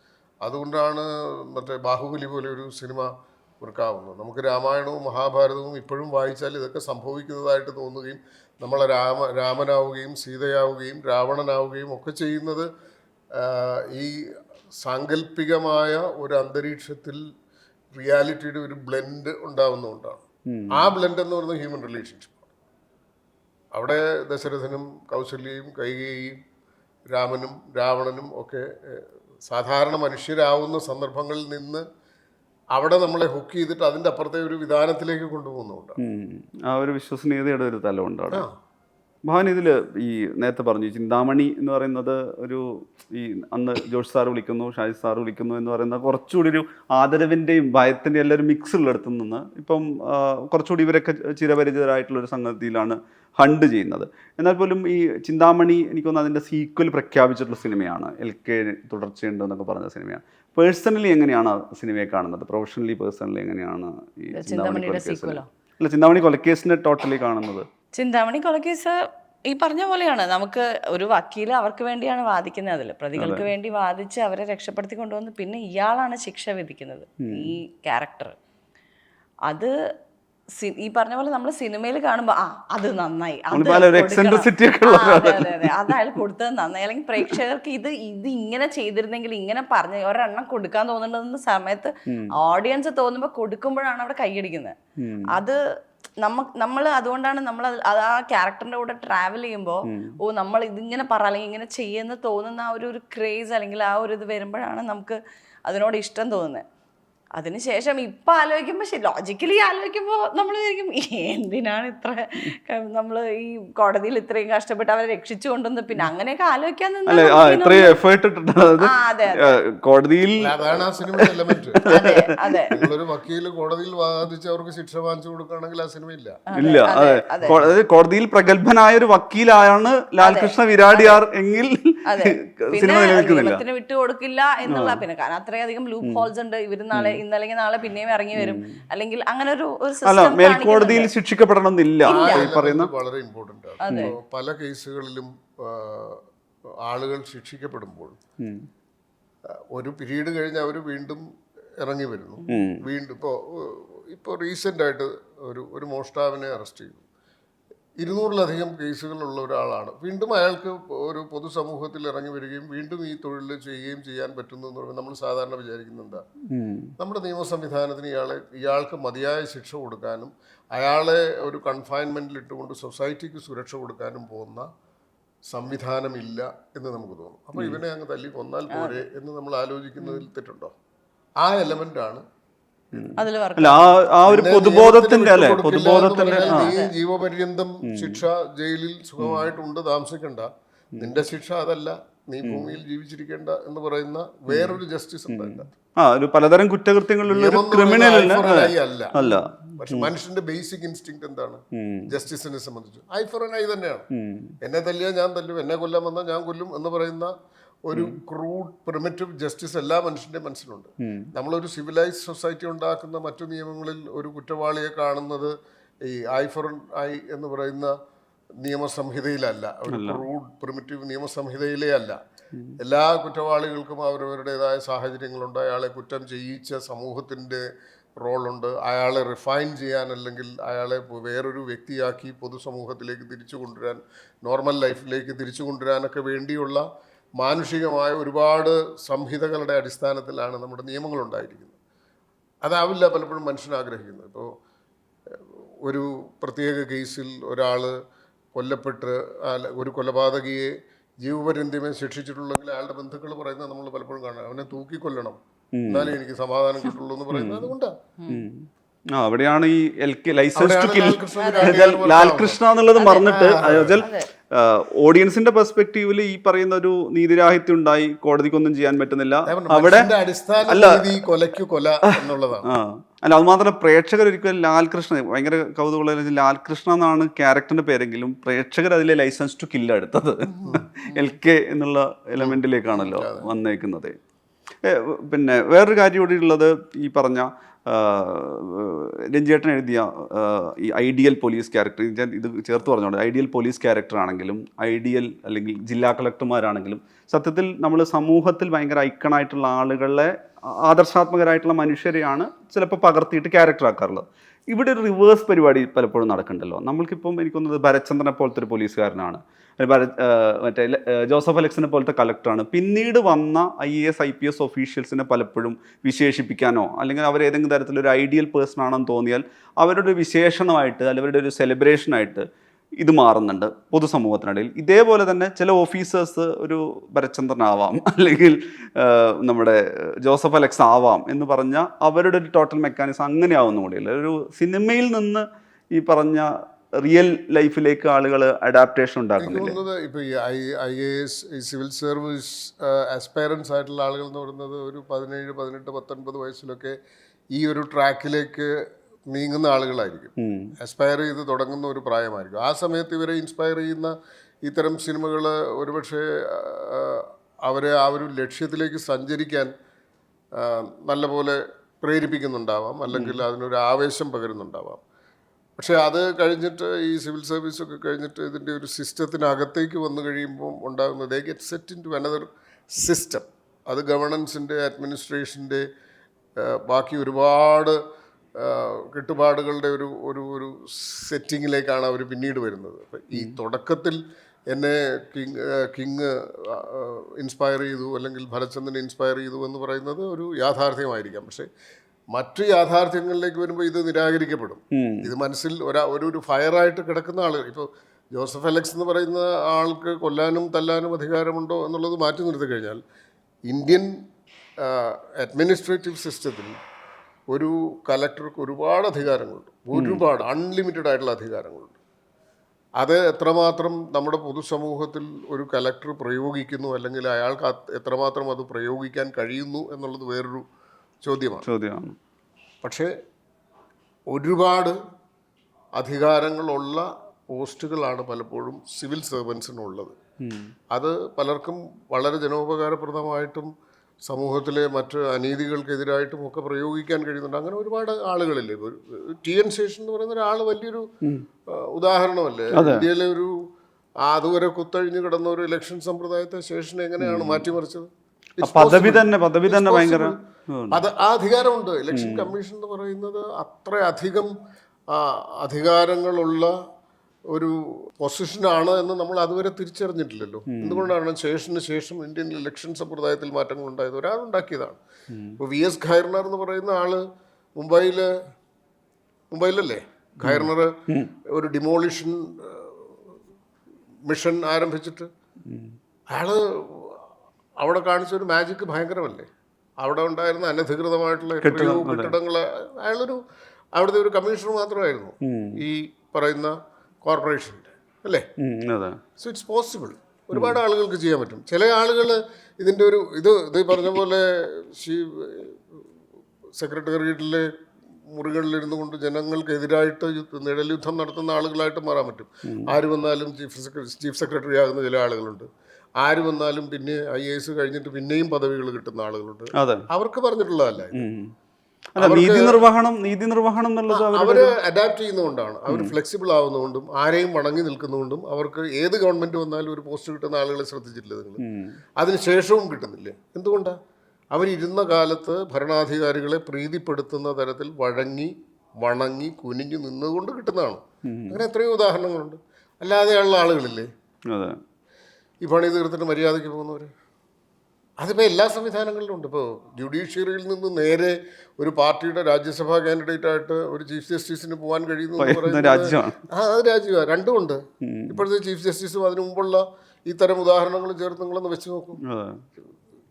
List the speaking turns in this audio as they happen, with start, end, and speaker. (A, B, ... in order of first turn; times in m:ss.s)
0:00.4-0:03.1 A
0:03.6-0:12.7 A
0:13.4-0:14.2 A
0:14.8-0:17.2 A
0:18.0-0:22.5 A
0:20.5-0:20.9 B
0:23.7-0:26.4 A
0:27.1-0:31.8 A
0:32.7-0:36.0 A
0:36.0-0:38.4 B
0:39.3-1:07.7 B
1:04.3-1:05.5 C
1:08.0-1:09.0 C
1:09.5-1:18.3 C
1:13.2-1:13.5 B
1:17.2-1:17.5 B
1:20.6-1:34.8 C
1:23.5-1:26.0 B
1:32.1-1:32.3 B
1:35.0-1:35.4 B
1:35.3-1:35.6 C
1:36.2-1:46.6 C
1:39.9-1:40.2 B
1:47.4-1:57.9 C
1:57.1-2:02.2 B
1:58.8-1:59.6 C
2:00.4-2:02.1 A
2:01.9-2:02.7 C
2:02.7-2:06.4 A
2:06.5-2:07.6 C
2:06.6-2:13.6 B
2:07.4-2:07.7 A
2:10.2-2:11.2 C
2:12.1-2:21.1 C
2:14.7-2:15.0 B
2:16.9-2:17.2 B
2:18.4-2:18.7 B
2:20.0-2:22.9 B
2:22.0-2:26.2 A
2:22.1-2:22.5 C
2:23.9-2:24.1 C
2:23.9-2:24.2 B
2:26.8-2:28.2 A
2:29.7-2:31.2 A
2:31.8-2:37.0 A
2:32.5-2:32.8 B
2:38.0-2:46.2 A
2:46.5-2:46.9 B
2:47.0-2:54.7 A
2:55.5-3:00.7 A
2:57.6-2:57.8 B
2:58.7-2:59.0 C
3:01.4-3:02.2 A
3:02.9-3:06.7 B
3:03.2-3:04.0 C
3:04.3-3:15.7 A
3:06.2-3:06.9 C
3:07.9-3:08.2 B
3:09.2-3:09.5 B
3:12.4-3:12.7 B
3:14.5-3:20.1 B
3:17.2-3:19.2 A
3:19.8-3:24.1 A
3:21.8-3:22.1 B
3:24.1-3:24.5 B
3:24.6-3:27.3 A
3:27.9-3:35.5 A
3:31.0-3:31.3 B
3:36.1-3:37.9 A
3:38.6-3:42.2 A
3:39.9-3:40.3 B
3:42.8-3:47.6 A
3:48.2-3:56.8 A
3:57.4-4:01.8 A
4:02.6-4:04.5 A
4:05.3-4:07.9 A
4:08.6-4:10.7 A
4:11.2-4:17.9 A
4:15.7-4:16.2 B
4:17.3-4:17.7 B
4:18.2-4:18.4 C
4:18.3-4:30.1 B
4:20.5-4:22.6 A
4:21.4-4:21.8 C
4:23.0-4:23.4 C
4:23.2-4:24.0 A
4:24.0-4:24.3 C
4:29.5-4:32.7 A
4:30.7-4:31.2 B
4:32.2-4:44.2 B
4:40.6-4:41.3 C
4:42.4-4:43.5 A
4:44.8-5:00.3 B
5:00.8-5:22.5 B
5:23.0-5:35.4 B
5:36.0-5:36.5 B
5:37.0-5:39.8 B
5:39.4-5:47.0 A
5:47.6-5:48.7 A
5:49.3-5:54.1 A
5:50.4-5:50.7 B
5:54.6-5:59.7 A
6:00.6-6:05.0 A
6:03.1-6:03.4 B
6:05.8-6:15.8 A
6:16.6-6:18.0 A
6:18.6-6:24.2 A
6:24.7-6:31.7 A
6:32.3-6:43.0 A
6:34.9-6:35.3 B
6:43.7-6:44.1 A
6:44.8-6:46.7 A
6:47.5-6:52.0 A
6:50.0-6:50.2 B
6:53.0-7:00.6 A
7:01.2-7:01.7 A
7:01.6-7:02.2 B
7:02.8-7:03.1 A
7:04.3-7:05.0 A
7:06.0-7:10.2 A
7:10.4-7:10.7 B
7:10.9-7:13.7 A
7:14.3-7:21.1 A
7:21.7-7:23.5 A
7:22.7-7:23.1 B
7:24.2-7:30.4 A
7:27.2-7:27.7 B
7:28.6-7:31.0 B
7:30.9-7:34.5 A
7:32.1-7:32.5 B
7:35.1-7:36.7 A
7:37.5-7:45.0 A
7:40.7-7:41.1 B
7:45.3-7:45.6 B
7:45.6-7:47.2 A
7:47.8-7:48.3 A
7:49.5-7:51.0 A
7:50.4-7:51.3 B
7:51.5-7:53.2 A
7:54.3-7:55.3 A
7:55.7-7:55.9 B
7:56.3-7:57.2 A
7:57.8-7:59.5 A
8:00.0-8:03.4 A
8:01.6-8:02.3 B
8:04.0-8:08.4 A
8:05.4-8:05.8 B
8:08.6-8:09.2 B
8:09.4-8:16.0 A
8:10.5-8:10.8 B
8:16.8-8:17.7 A
8:18.3-8:25.7 A
8:22.7-8:23.0 B
8:26.2-8:31.3 A
8:29.8-8:30.0 B
8:31.2-8:31.5 B
8:32.2-8:34.7 B
8:32.2-8:32.8 A
8:34.1-8:41.6 A
8:35.9-8:36.1 B
8:41.6-8:42.0 B
8:42.2-8:44.0 A
8:44.5-8:54.1 A
8:51.2-8:51.6 B
8:54.5-8:54.8 B
8:55.6-8:57.1 A
8:58.2-9:12.2 A
9:05.4-9:06.4 B
9:08.0-9:08.4 B
9:12.3-9:12.6 B